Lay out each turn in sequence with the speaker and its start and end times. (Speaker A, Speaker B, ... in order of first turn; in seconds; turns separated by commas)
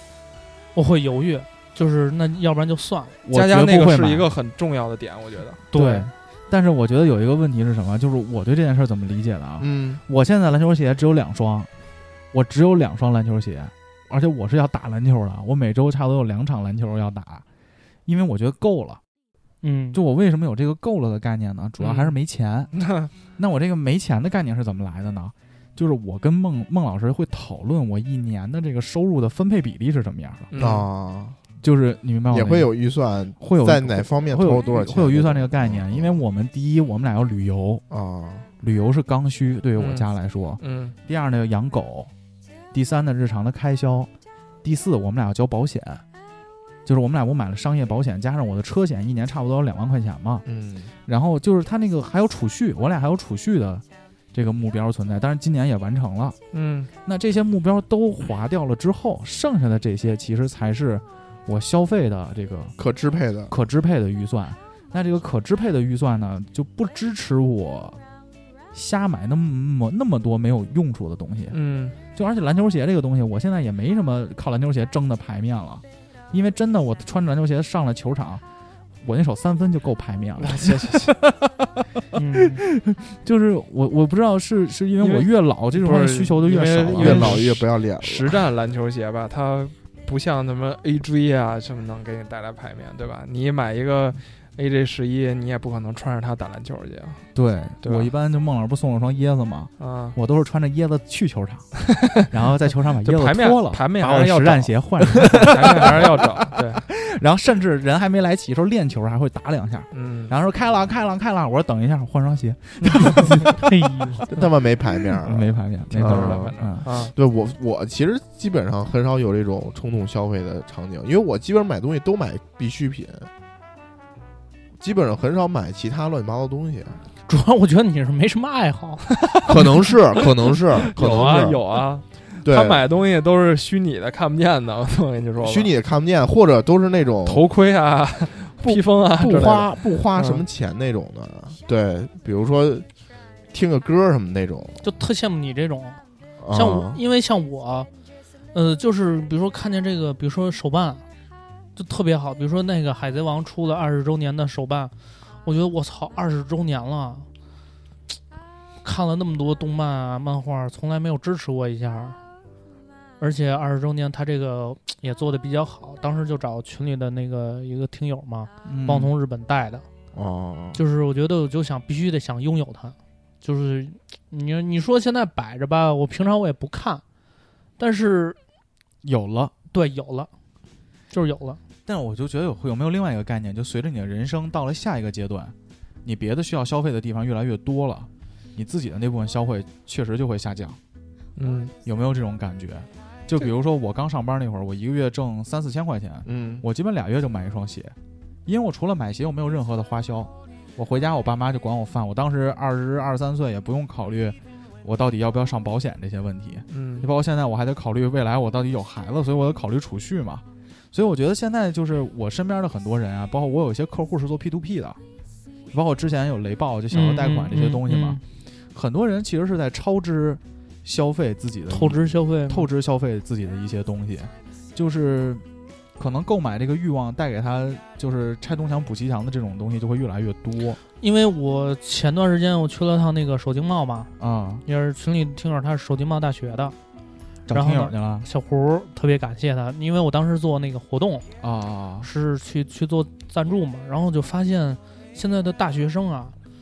Speaker A: 0.7-3.2, Speaker B: 3.2-4.3, Speaker C: 3.3-5.7, Speaker A: 5.7-6.1, Speaker B: 5.7-11.7, Speaker D: 9.6-10.0, Speaker B: 12.3-17.4, Speaker B: 18.1-19.0, Speaker A: 19.6-20.0, Speaker B: 19.9-30.5, Speaker C: 21.8-22.1, Speaker C: 30.5-30.9, Speaker D: 30.6-31.4, Speaker B: 31.6-32.7, Speaker D: 32.3-36.2, Speaker B: 33.4-37.8, Speaker D: 37.9-38.5, Speaker B: 38.6-42.1, Speaker C: 39.8-40.1, Speaker C: 40.6-40.9, Speaker B: 42.7-44.1, Speaker B: 44.6-46.0, Speaker B: 46.8-50.4, Speaker D: 50.5-50.9, Speaker B: 51.0-56.4, Speaker C: 56.5-56.9, Speaker B: 57.0-62.8, Speaker D: 62.8-63.5, Speaker B: 63.5-68.0, Speaker B: 68.7-71.6, Speaker C: 71.5-72.0, Speaker B: 72.1-78.4, Speaker B: 79.0-81.7, Speaker C: 80.4-81.2, Speaker A: 82.1-82.6, Speaker B: 82.4-87.4, Speaker C: 85.0-97.3, Speaker D: 86.9-88.4, Speaker B: 97.3-114.2, Speaker C: 97.8-98.1, Speaker C: 99.8-100.2, Speaker C: 103.0-106.8, Speaker C: 109.9-110.3, Speaker C: 112.8-113.1, Speaker A: 113.6-114.2, Speaker D: 114.3-123.3, Speaker B: 115.1-116.8, Speaker C: 116.0-117.1, Speaker D: 124.8-127.0, Speaker A: 127.3-129.4, Speaker D: 129.4-131.6, Speaker A: 130.9-131.4, Speaker C: 130.9-135.7, Speaker D: 132.4-132.8, Speaker D: 135.4-137.4, Speaker C: 137.2-140.4, Speaker D: 138.6-142.9, Speaker D: 143.5-144.8, Speaker A: 144.8-146.0, Speaker D: 146.4-147.0, Speaker A: 146.5-147.9, Speaker A: 148.5-151.0, Speaker A: 151.8-157.3, Speaker A: 158.8-162.2, Speaker A: 163.2-169.8, Speaker B: 168.6-169.1, Speaker D: 170.1-170.8, Speaker A: 170.7-177.0, Speaker A: 177.8-178.4, Speaker B: 179.0-179.5, Speaker A: 179.7-180.3, Speaker A: 181.1-181.6, Speaker B: 181.8-190.8, Speaker C: 191.3-191.7, Speaker B: 191.8-197.9, Speaker D: 196.2-196.7, Speaker B: 198.4-215.0, Speaker C: 206.7-207.1, Speaker B: 215.7-218.2, Speaker A: 216.9-218.2, Speaker B: 218.7-225.4, Speaker A: 221.7-222.7, Speaker B: 226.0-230.8, Speaker A: 231.0-234.1, Speaker B: 234.2-234.6, Speaker A: 234.7-236.7, Speaker B: 237.4-238.3, Speaker A: 237.5-241.3, Speaker B: 241.4-242.1, Speaker A: 242.0-246.3